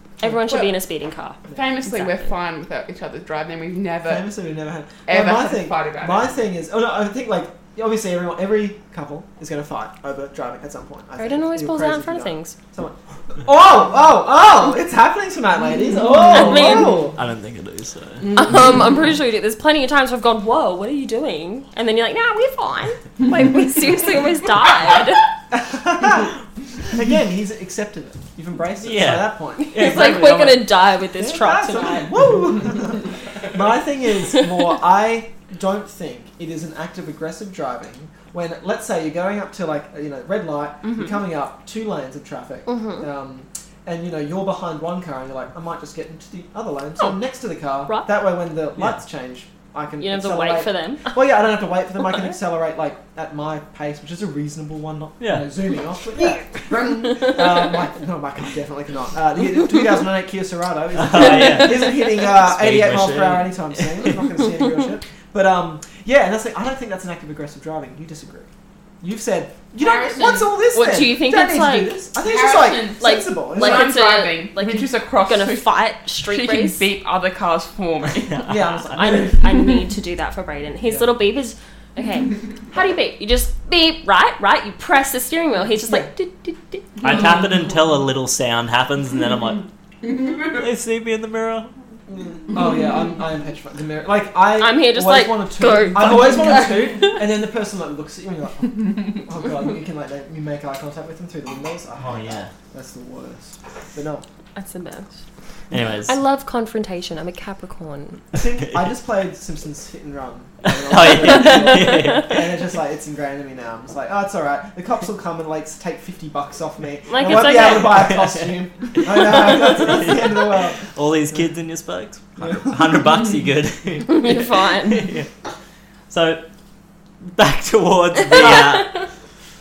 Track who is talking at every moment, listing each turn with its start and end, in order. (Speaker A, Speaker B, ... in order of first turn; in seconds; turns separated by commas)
Speaker A: 0.2-2.3, Speaker B: 1.5-4.2, Speaker C: 4.0-17.2, Speaker B: 5.0-6.3, Speaker A: 11.2-12.6, Speaker A: 16.2-17.1, Speaker D: 17.1-18.3, Speaker A: 18.3-25.2, Speaker C: 25.5-68.5, Speaker D: 28.8-30.6, Speaker A: 29.6-32.1, Speaker A: 40.9-41.1, Speaker A: 42.6-43.1, Speaker A: 50.0-51.1, Speaker D: 55.2-55.5, Speaker A: 57.1-57.4, Speaker D: 60.9-64.2, Speaker C: 69.0-73.9, Speaker B: 69.8-70.5, Speaker A: 70.7-72.0, Speaker B: 72.2-78.5, Speaker A: 73.0-76.9, Speaker D: 78.2-79.0, Speaker C: 78.4-79.5, Speaker A: 78.9-87.1, Speaker C: 85.8-86.1, Speaker D: 87.0-89.7, Speaker B: 90.0-90.5, Speaker D: 90.4-91.7, Speaker C: 92.1-104.2, Speaker A: 94.6-97.2, Speaker D: 102.0-102.5, Speaker A: 104.5-105.1, Speaker D: 105.7-106.2, Speaker A: 106.0-108.2, Speaker C: 108.3-121.4, Speaker D: 110.7-112.5, Speaker A: 111.3-112.1, Speaker A: 117.1-118.2, Speaker D: 117.5-125.3, Speaker C: 122.4-123.0, Speaker A: 124.1-125.1, Speaker D: 126.1-126.4, Speaker D: 127.3-129.0, Speaker C: 128.3-128.7, Speaker A: 128.3-128.9